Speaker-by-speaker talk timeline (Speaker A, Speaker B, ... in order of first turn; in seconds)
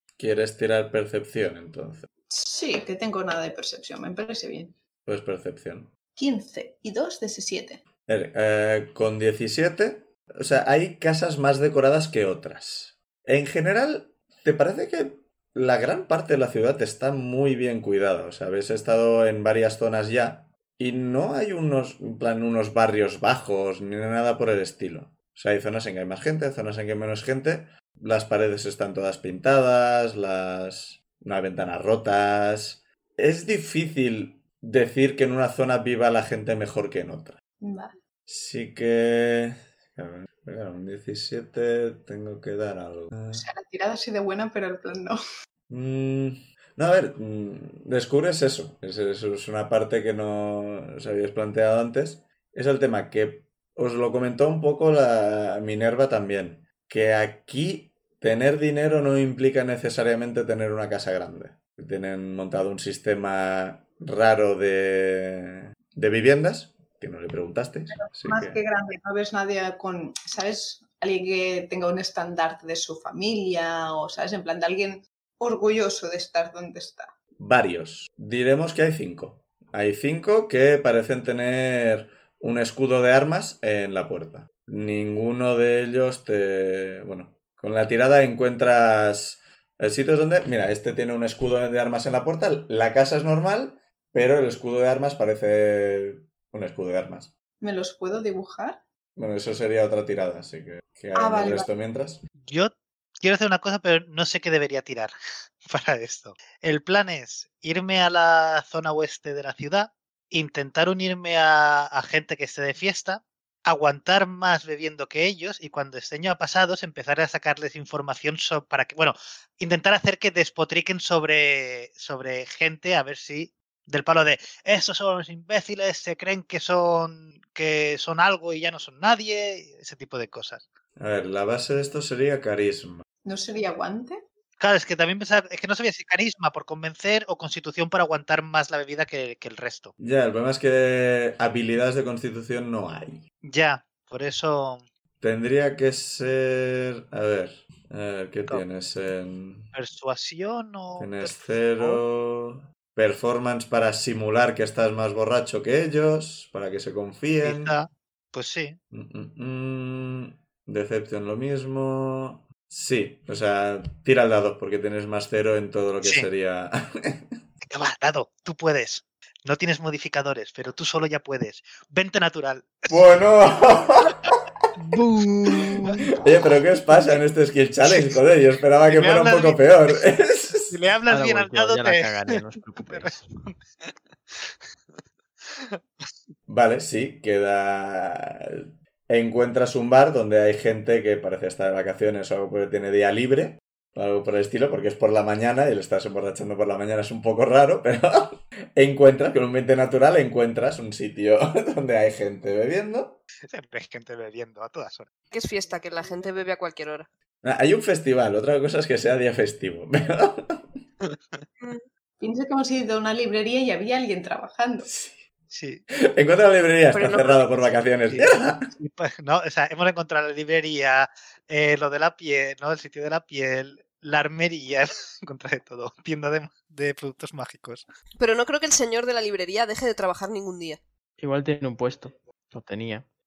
Speaker A: 0.2-2.1, 5.1-5.9, 8.1-37.4, 38.3-43.5, 45.7-68.6, 77.4-97.3, 99.2-102.2, 131.0-133.1, 140.0-143.2, 145.2-149.7, 151.0-157.7, 158.9-167.4, 172.9-174.3, 176.2-180.7, 186.5-203.2, 207.4-210.7, 214.8-215.2, 216.1-218.7
Speaker B: 2.3-4.8, 6.2-7.8, 37.6-38.0, 43.3-45.2, 67.9-77.1, 97.6-98.8, 101.2-101.7, 133.2-134.2, 212.2-214.9
Speaker C: 102.5-105.1, 105.6-130.7, 134.6-139.9, 143.4-144.8, 149.7-152.0, 157.4-158.8, 166.0-166.3, 167.7-173.1, 175.0-175.7, 177.9-178.1, 178.9-179.8, 180.7-183.6, 185.5-185.8, 203.5-205.1, 211.0-211.4, 215.5-215.8, 218.1-227.8
Speaker D: 174.9-176.0, 181.1-183.3, 231.2-233.1
Speaker E: 205.3-207.1, 211.6-211.9, 216.9-217.7, 228.2-230.8